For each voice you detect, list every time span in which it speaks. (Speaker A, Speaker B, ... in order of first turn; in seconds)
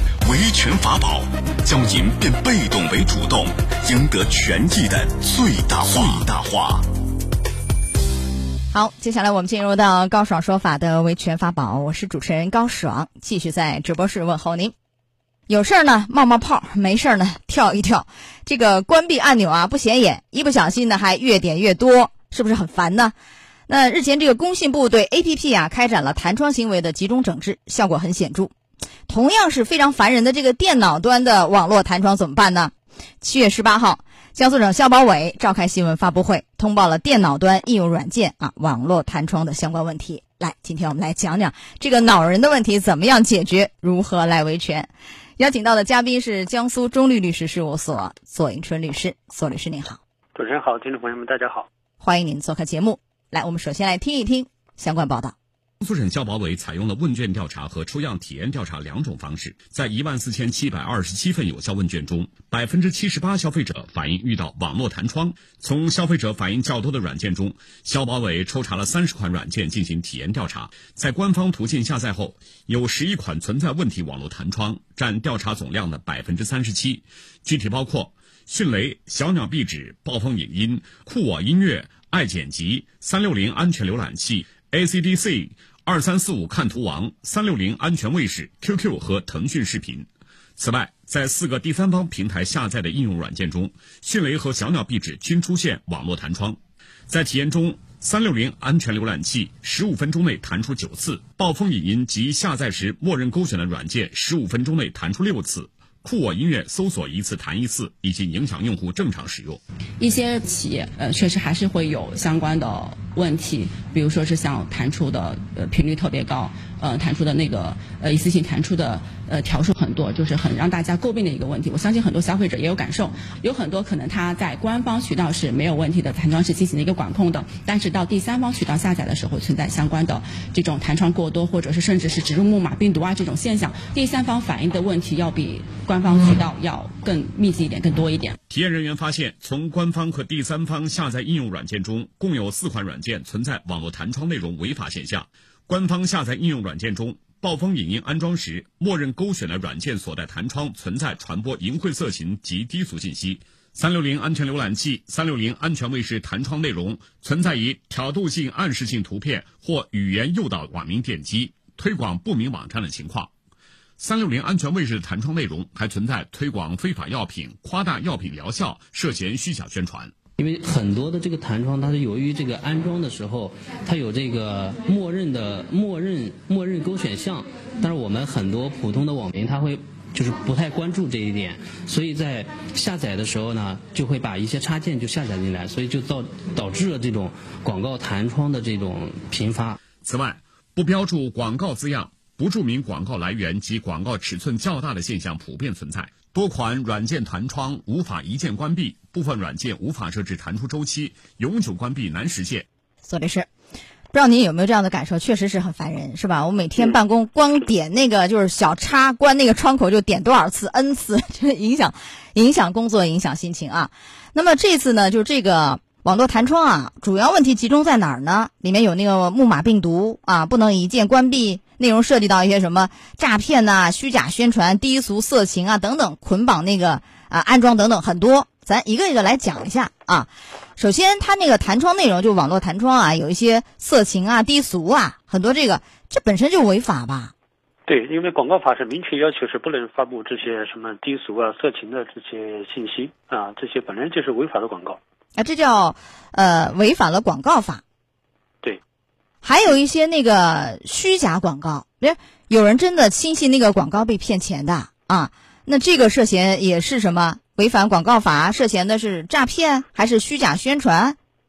Speaker A: 0.2-6.8
Speaker B: 8.7-14.7, 15.5-23.1, 23.7-28.5, 29.1-50.0, 52.0-55.3, 203.0-203.5, 204.1-237.3, 245.4-247.8, 249.4-261.2
Speaker C: 50.3-51.7, 237.9-245.0
Speaker D: 55.8-90.1, 90.6-109.6, 138.5-163.3, 164.0-170.1, 190.0-202.7
Speaker E: 110.0-138.4
Speaker F: 170.4-189.8